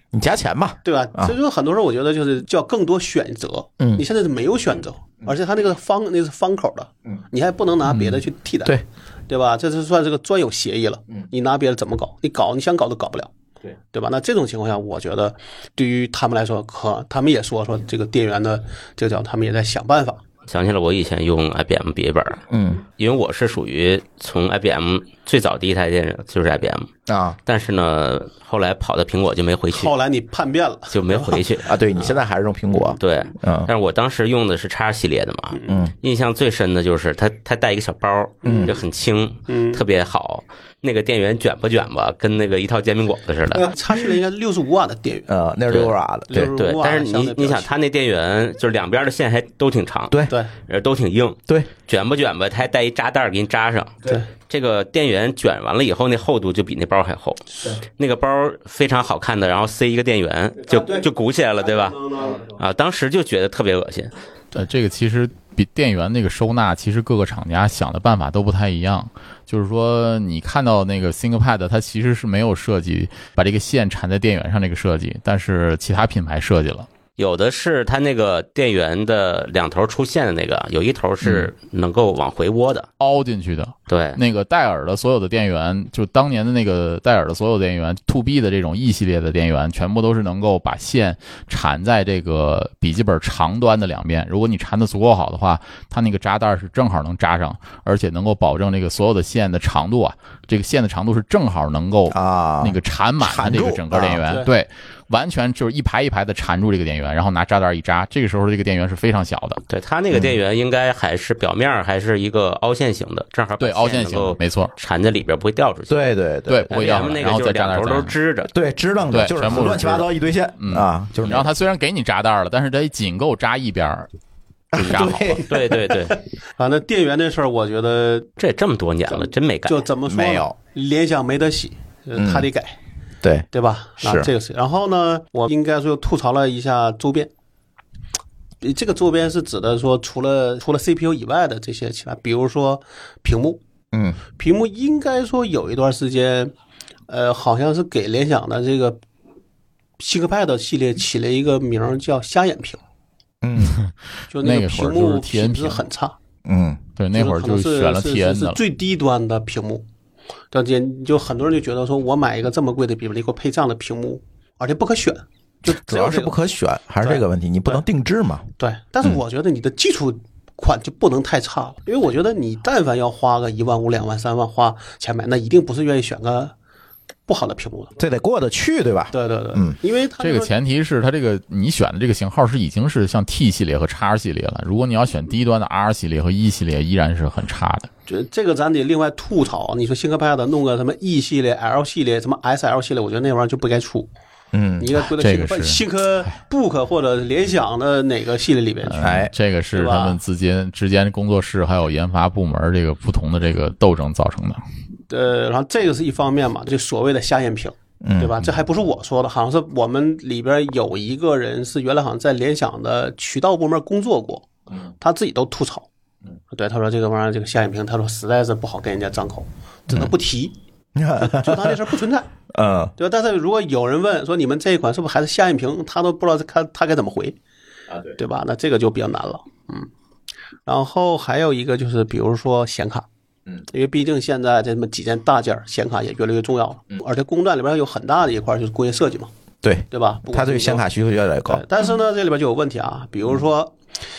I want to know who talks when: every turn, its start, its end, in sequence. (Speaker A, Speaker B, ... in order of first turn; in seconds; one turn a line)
Speaker A: 0.1-1.4
Speaker B: 0.8-8.8
Speaker A: 3.8-4.0
Speaker A: 7.8-8.8
Speaker B: 9.3-13.3
Speaker B: 13.9-20.2
Speaker C: 20.5-22.4
Speaker A: 22.5-22.8
Speaker C: 23.0-26.9
Speaker A: 27.1-27.4
Speaker C: 27.5-29.9
Speaker B: 29.7-31.5
Speaker C: 30.9-31.8
Speaker A: 31.6-33.7
Speaker C: 33.0-43.7
Speaker B: 35.5-35.9
Speaker A: 35.7-35.9
Speaker B: 38.4-38.8
Speaker A: 38.5-38.8
Speaker B: 39.5-39.8
Speaker B: 43.6-45.3
Speaker A: 45.3-46.5
Speaker C: 45.7-45.9
Speaker B: 46.3-47.7
Speaker C: 46.6-64.1
Speaker B: 60.7-61.0
Speaker B: 61.8-62.5
Speaker D: 64.5-76.9
Speaker C: 77.2-82.9
Speaker D: 83.0-109.6
Speaker C: 83.9-84.2
Speaker A: 102.1-104.3
Speaker B: 104.3-104.5
Speaker C: 109.7-116.1
Speaker D: 113.6-114.7
Speaker A: 115.9-117.1
Speaker D: 116.5-118.2
Speaker C: 116.7-118.5
Speaker A: 118.5-121.5
Speaker D: 119.1-120.0
Speaker C: 119.4-120.0
Speaker D: 120.6-124.1
Speaker A: 124.7-125.5
Speaker C: 124.8-126.2
Speaker D: 124.8-125.4
Speaker B: 125.9-128.3
Speaker C: 128.4-129.8
Speaker B: 129.7-132.8
Speaker A: 130.1-130.5
Speaker A: 132.2-132.5
Speaker A: 133.2-133.5
Speaker B: 133.5-137.3
Speaker A: 134.0-134.3
Speaker B: 138.6-143.6
Speaker A: 143.9-144.2
Speaker B: 144.4-146.5
Speaker B: 147.1-149.0
Speaker B: 150.0-152.8
Speaker A: 153.4-153.8
Speaker D: 153.6-155.8
Speaker B: 154.3-156.2
Speaker A: 156.4-156.8
Speaker D: 157.0-158.6
Speaker B: 157.1-159.8
Speaker B: 160.5-166.3
Speaker A: 165.7-168.5
Speaker B: 167.0-167.8
Speaker B: 168.6-176.5
Speaker B: 177.3-178.0
Speaker A: 178.0-179.8
Speaker B: 179.1-180.5
Speaker D: 180.2-187.9
Speaker B: 188.1-194.1
Speaker A: 194.5-194.9
Speaker B: 194.8-200.2
Speaker D: 195.0-195.8
Speaker D: 198.9-204.6
Speaker A: 199.0-199.3
Speaker B: 205.1-215.9
Speaker A: 208.0-208.4
Speaker B: 216.5-220.6
Speaker A: 221.0-221.8
Speaker B: 221.2-222.3
Speaker A: 222.5-222.9
Speaker B: 223.0-227.4
Speaker B: 228.2-229.9
Speaker B: 230.7-233.1
Speaker B: 233.7-239.3
Speaker A: 239.6-241.6
Speaker B: 239.9-240.9
Speaker B: 241.5-243.8